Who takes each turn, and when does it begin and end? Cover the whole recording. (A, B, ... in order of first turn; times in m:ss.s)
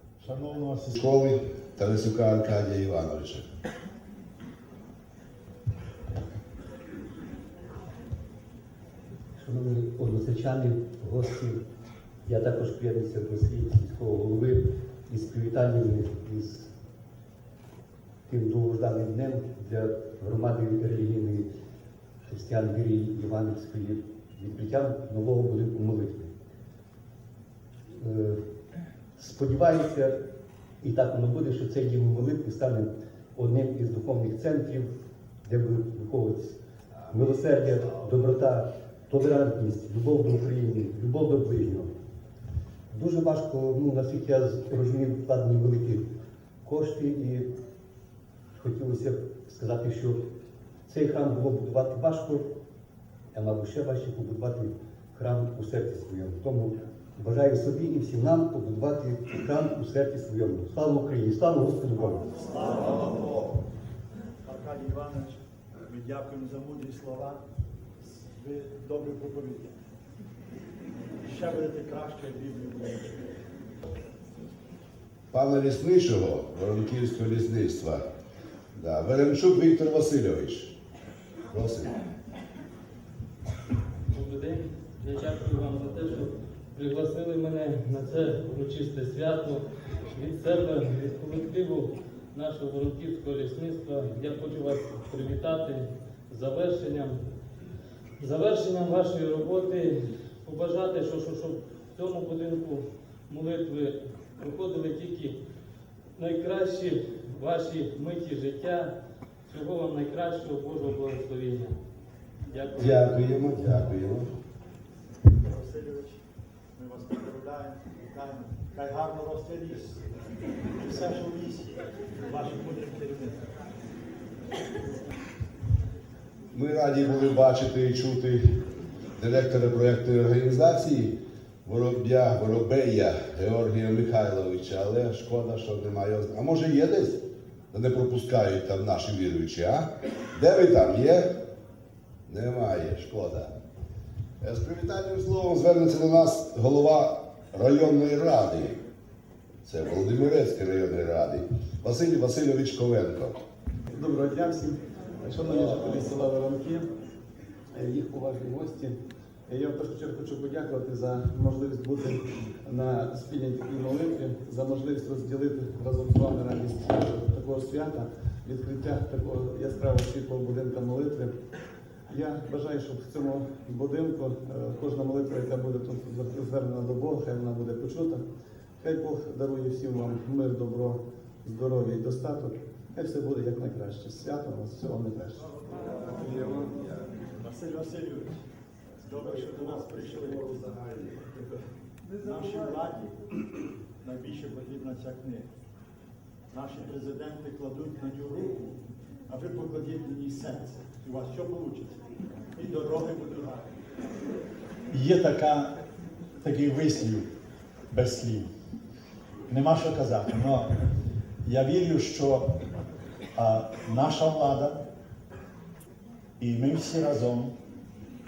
0:00.2-0:01.0 A
0:01.0-0:03.4 B
0:09.4-0:11.6 C
0:12.2-0:16.7 C
0:18.3-0:21.5 C
0:22.3-0:26.3 C
0:27.9-0:28.4 C
0:29.2-0:30.2 C
0:30.8-0:34.9 C
0:35.4-0:36.6 C
0:37.1-0:41.9 C
0:42.9-0:46.0 C
0:46.6-0:47.5 C
0:48.6-0:50.2 C
0:50.9-0:52.5 C
0:53.3-1:02.3 C
1:02.0-1:03.6 D
1:04.4-1:07.4 D
1:08.1-1:09.7 D
1:11.2-1:13.2 D
1:15.3-1:18.0 B
1:18.8-1:20.7 B
1:21.5-1:22.0 B
1:24.1-1:37.2 E
1:38.2-1:45.4 E
1:46.2-1:48.9 E
1:49.5-1:51.7 E
1:52.5-1:52.9 E
1:52.8-1:54.3 B
1:55.4-1:56.2 D
1:56.8-2:00.0 D
2:00.8-2:01.8 D
2:02.3-2:03.4 D
2:06.5-2:08.6 B
2:09.2-2:21.3 B
2:22.3-2:23.5 B
2:24.4-2:28.8 B
2:29.6-2:33.4 B
2:33.9-2:36.9 F
2:37.7-2:38.9 F
2:39.5-2:51.3 F
2:52.1-2:58.2 F
2:58.8-3:05.4 F
3:07.4-3:08.3 D
3:09.0-3:10.6 D
3:12.2-3:13.2 D
3:14.0-3:15.4 D
3:16.5-3:18.8 D
3:19.3-3:22.0 D
3:22.5-3:23.7 D
3:24.9-3:25.7 A
3:26.4-3:27.3 A
3:27.9-3:28.5 A
3:29.5-3:30.8 A
3:31.4-3:32.5 A
3:33.4-3:34.8 A
3:36.4-3:37.5 A